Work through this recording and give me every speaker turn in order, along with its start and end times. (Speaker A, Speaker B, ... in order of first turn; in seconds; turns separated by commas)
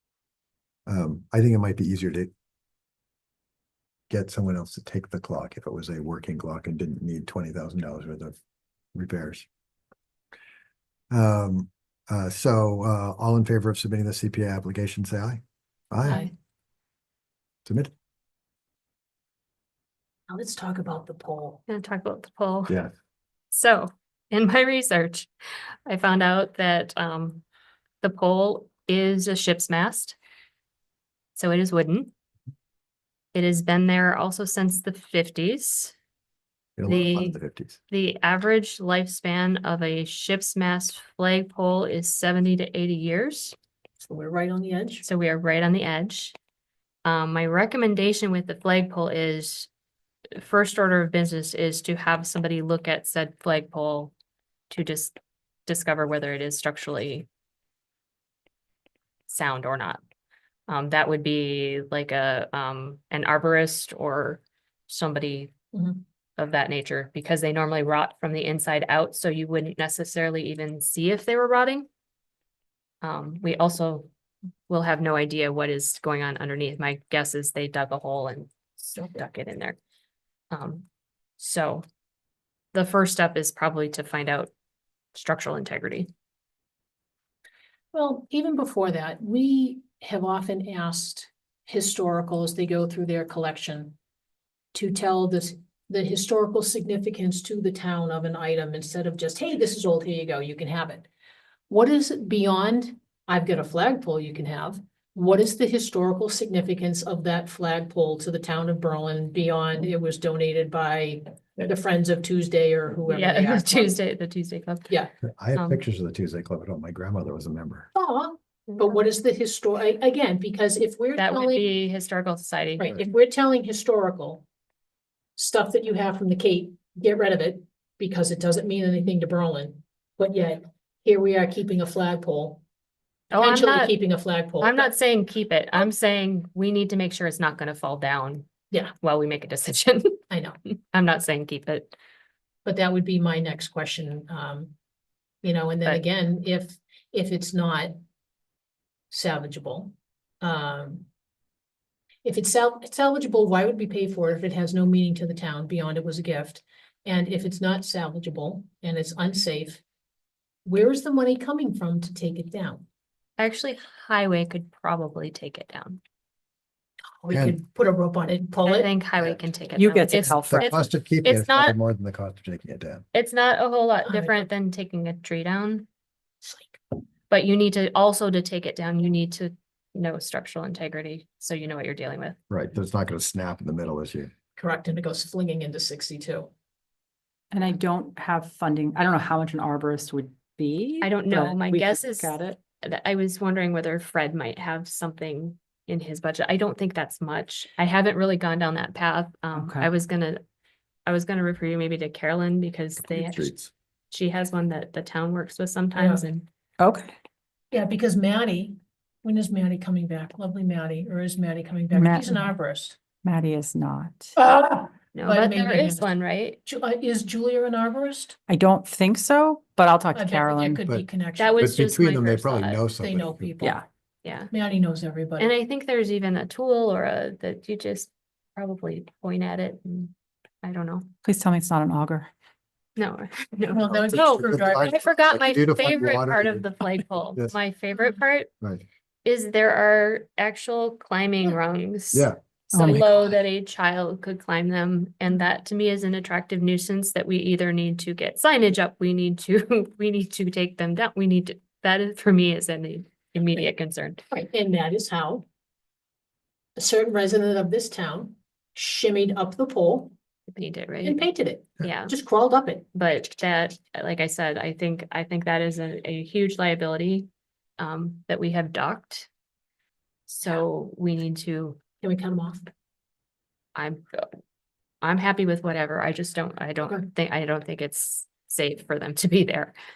Speaker A: 0.8-2.3, Speaker A: 4.1-8.3, Speaker A: 8.9-9.4, Speaker A: 11.1-16.3, Speaker A: 17.6-17.9, Speaker B: 20.3-21.6, Speaker C: 21.7-22.7, Speaker C: 23.5-25.3, Speaker C: 25.9-27.4, Speaker C: 28.0-30.1, Speaker C: 31.4-32.1, Speaker C: 33.3-35.9, Speaker A: 36.8-37.8, Speaker C: 36.8-37.4, Speaker C: 37.9-43.5, Speaker B: 44.0-45.0, Speaker C: 45.0-46.4, Speaker C: 47.0-49.7, Speaker C: 50.4-54.1, Speaker C: 54.7-57.3, Speaker C: 59.3-60.0, Speaker C: 60.7-65.5, Speaker B: 65.7-66.0, Speaker C: 66.4-71.9, Speaker C: 73.0-74.1, Speaker C: 74.7-79.8, Speaker C: 80.5-80.8, Speaker C: 81.4-81.8, Speaker C: 82.7-84.5, Speaker C: 85.1-86.1, Speaker B: 87.9-94.0, Speaker B: 94.7-101.1, Speaker B: 101.7-114.0, Speaker C: 113.1-114.9, Speaker A: 115.4-117.9, Speaker C: 115.5-115.8, Speaker B: 117.9-121.7, Speaker C: 118.7-118.9, Speaker C: 121.2-123.0, Speaker B: 122.8-124.4, Speaker B: 125.4-132.6, Speaker C: 133.3-134.0, Speaker B: 133.3-134.9, Speaker C: 134.6-141.9, Speaker B: 140.3-140.6, Speaker B: 142.6-144.7, Speaker B: 145.4-147.9, Speaker B: 149.1-151.1, Speaker B: 152.2-159.8, Speaker B: 160.6-162.8, Speaker C: 163.4-166.0, Speaker B: 167.2-168.9, Speaker A: 167.3-167.6, Speaker C: 168.6-171.7, Speaker D: 169.8-170.8, Speaker A: 170.3-173.0, Speaker C: 173.1-175.9, Speaker B: 174.0-174.4, Speaker B: 176.4-176.8, Speaker C: 177.3-182.4, Speaker A: 182.5-184.3, Speaker B: 184.6-186.5, Speaker D: 187.5-192.6, Speaker C: 191.0-200.4, Speaker D: 199.5-199.9, Speaker C: 201.1-203.5, Speaker A: 203.0-203.7, Speaker C: 204.1-206.4, Speaker B: 205.9-206.2, Speaker D: 206.8-207.1, Speaker B: 207.7-213.0, Speaker D: 211.9-212.4, Speaker D: 213.2-214.3, Speaker B: 214.3-216.0, Speaker C: 215.1-216.6, Speaker B: 216.6-218.3, Speaker D: 218.5-220.8, Speaker B: 220.1-221.7, Speaker C: 221.4-222.8, Speaker A: 221.6-223.5, Speaker B: 223.0-223.8, Speaker C: 224.2-224.5, Speaker B: 224.5-225.5, Speaker C: 225.4-230.1, Speaker C: 230.6-231.1, Speaker D: 231.2-232.3, Speaker C: 232.9-238.5, Speaker B: 233.7-235.0, Speaker A: 233.9-237.5, Speaker C: 239.2-254.2, Speaker A: 242.1-243.0, Speaker D: 242.7-243.1, Speaker B: 254.3-255.4, Speaker B: 256.8-260.1, Speaker C: 260.5-261.2, Speaker B: 261.0-262.8, Speaker C: 261.8-262.1, Speaker C: 262.9-269.3, Speaker C: 270.3-271.8, Speaker B: 272.0-272.7, Speaker C: 273.7-274.3, Speaker C: 275.0-279.7